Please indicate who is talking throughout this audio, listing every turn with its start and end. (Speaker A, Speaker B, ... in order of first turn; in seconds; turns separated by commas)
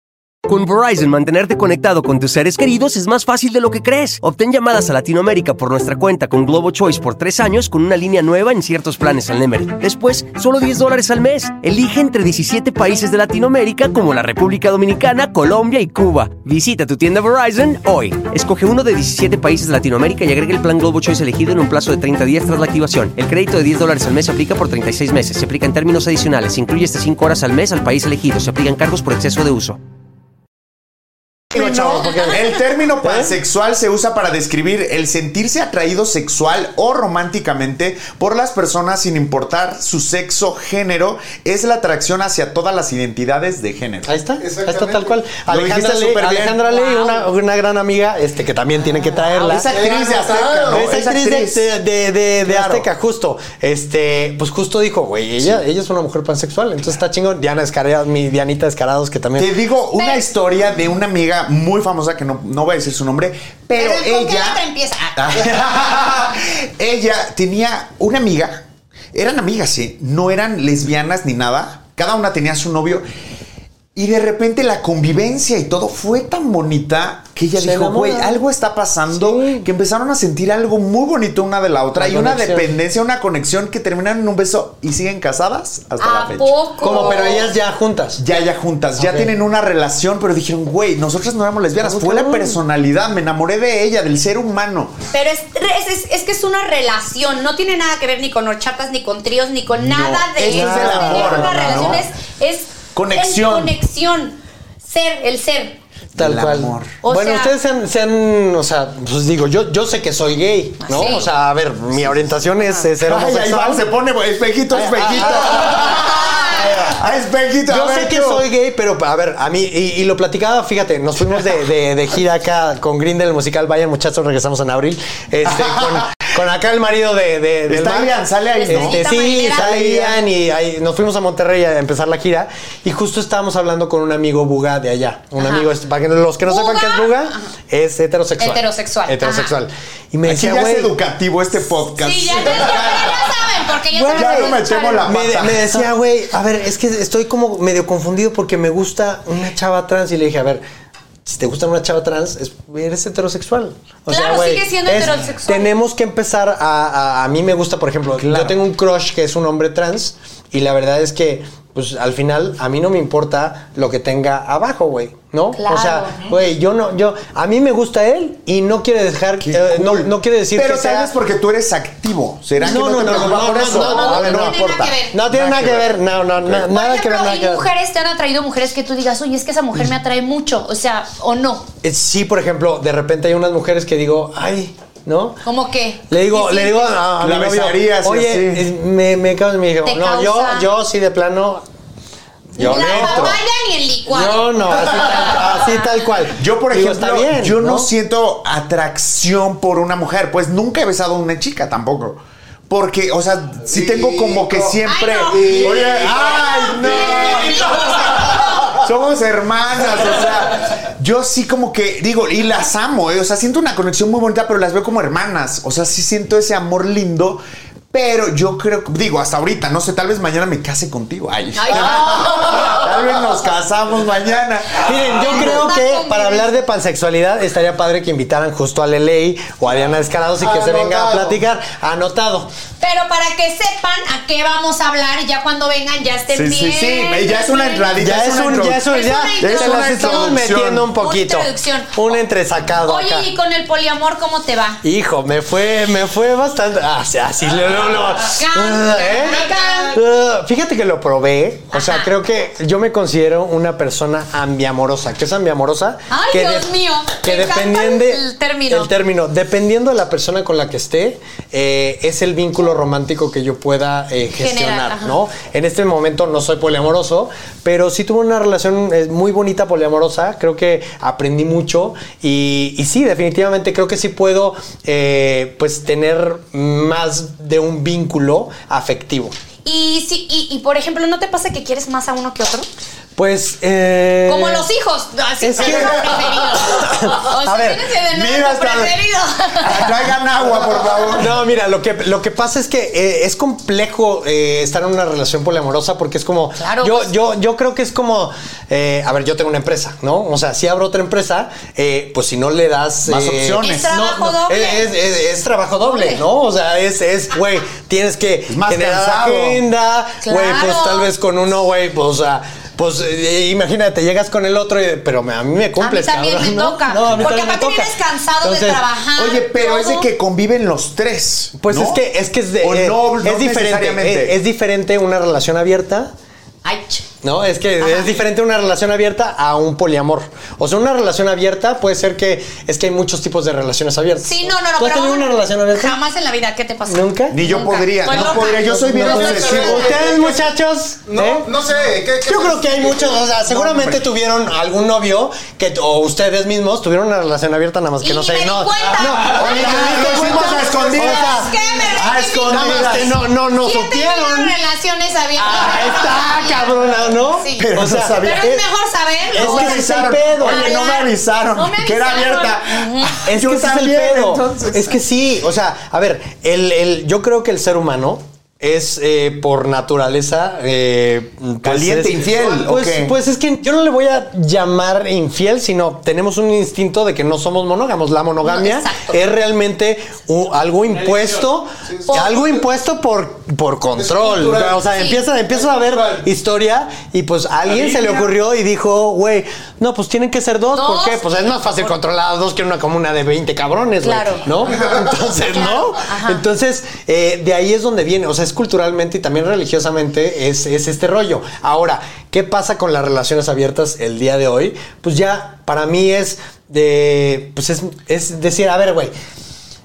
Speaker A: 0.5-29.8, Speaker B: 31.5-32.5, Speaker C: 31.5-44.1, Speaker D: 32.0-32.5, Speaker B: 33.0-33.4, Speaker B: 44.0-49.7, Speaker E: 44.4-45.2, Speaker C: 45.5-46.6, Speaker D: 46.7-47.3, Speaker C: 49.3-51.6, Speaker E: 49.6-50.8, Speaker B: 50.7-59.6, Speaker C: 52.4-52.9, Speaker C: 59.4-64.6, Speaker D: 60.0-60.3, Speaker D: 63.8-65.5, Speaker C: 65.2-68.6, Speaker C: 69.1-73.0, Speaker C: 74.0-87.5, Speaker B: 77.5-78.4, Speaker B: 79.1-79.7, Speaker B: 81.9-82.8, Speaker D: 86.0-87.5, Speaker B: 86.8-88.2, Speaker C: 88.2-95.0, Speaker B: 89.0-89.3, Speaker B: 91.8-92.6, Speaker D: 95.1-105.8, Speaker C: 99.8-102.0, Speaker B: 100.5-102.0, Speaker C: 103.0-103.8, Speaker B: 106.2-113.8, Speaker C: 106.2-106.9, Speaker D: 107.0-107.5, Speaker D: 110.8-111.3, Speaker C: 113.0-118.5, Speaker B: 114.7-117.0, Speaker D: 116.2-116.6, Speaker B: 117.7-140.9, Speaker C: 127.7-130.2, Speaker D: 128.5-129.7, Speaker D: 135.4-135.7, Speaker D: 136.4-137.5, Speaker D: 138.4-139.5, Speaker C: 140.3-143.3, Speaker D: 142.0-145.1, Speaker B: 143.9-150.6, Speaker C: 144.1-145.9, Speaker B: 151.2-171.1, Speaker D: 154.1-155.7, Speaker C: 158.2-158.6, Speaker D: 165.5-166.3, Speaker C: 169.4-176.7, Speaker B: 172.6-177.7, Speaker D: 173.0-175.2, Speaker D: 176.7-181.7, Speaker B: 181.8-185.4, Speaker D: 185.4-187.0, Speaker B: 186.1-191.6, Speaker C: 187.2-188.7, Speaker D: 189.8-190.7, Speaker B: 192.6-193.4, Speaker C: 192.6-193.4, Speaker D: 192.6-195.8, Speaker B: 194.1-197.9, Speaker C: 196.3-225.7, Speaker E: 203.7-207.8, Speaker D: 204.8-208.7, Speaker D: 221.5-222.9, Speaker B: 224.8-232.5, Speaker D: 225.1-226.5, Speaker E: 230.4-231.4, Speaker D: 232.8-237.9, Speaker C: 236.3-240.9, Speaker B: 237.9-243.3, Speaker D: 238.8-242.2, Speaker D: 242.8-244.8, Speaker B: 244.8-279.4, Speaker D: 248.3-250.0, Speaker D: 251.7-252.1, Speaker D: 256.1-258.9, Speaker D: 264.4-265.2, Speaker D: 279.6-282.7, Speaker B: 283.2-284.7, Speaker D: 284.3-289.9, Speaker B: 285.4-287.9, Speaker C: 285.6-286.3, Speaker C: 288.1-289.0, Speaker C: 289.6-291.4, Speaker B: 291.1-318.8, Speaker D: 296.6-297.1, Speaker C: 303.1-304.0, Speaker D: 303.6-304.9, Speaker D: 305.8-306.2, Speaker C: 308.5-309.6, Speaker D: 310.2-311.1, Speaker D: 315.8-320.1, Speaker C: 319.2-322.0, Speaker B: 321.6-326.1, Speaker C: 322.6-324.4, Speaker D: 326.6-327.1, Speaker B: 327.2-336.0, Speaker D: 327.8-328.1, Speaker D: 334.2-340.0, Speaker B: 336.9-337.4, Speaker C: 337.3-340.1, Speaker B: 338.1-341.5, Speaker E: 338.9-340.5, Speaker E: 341.1-343.4, Speaker B: 342.2-351.6, Speaker C: 343.5-344.1, Speaker D: 348.0-356.6, Speaker C: 349.2-353.1, Speaker B: 352.5-354.6, Speaker B: 355.4-358.6, Speaker D: 357.4-357.7, Speaker C: 357.6-358.6, Speaker D: 358.2-363.1, Speaker B: 359.3-360.8, Speaker C: 359.3-365.0, Speaker B: 363.2-409.1, Speaker C: 371.6-373.1, Speaker D: 378.4-379.2, Speaker E: 381.9-382.6, Speaker D: 382.1-382.4, Speaker E: 384.0-384.9, Speaker D: 384.9-385.2, Speaker E: 385.5-386.3, Speaker E: 387.7-388.3, Speaker D: 390.7-391.9, Speaker D: 394.0-394.5, Speaker E: 394.8-395.1, Speaker D: 395.5-396.4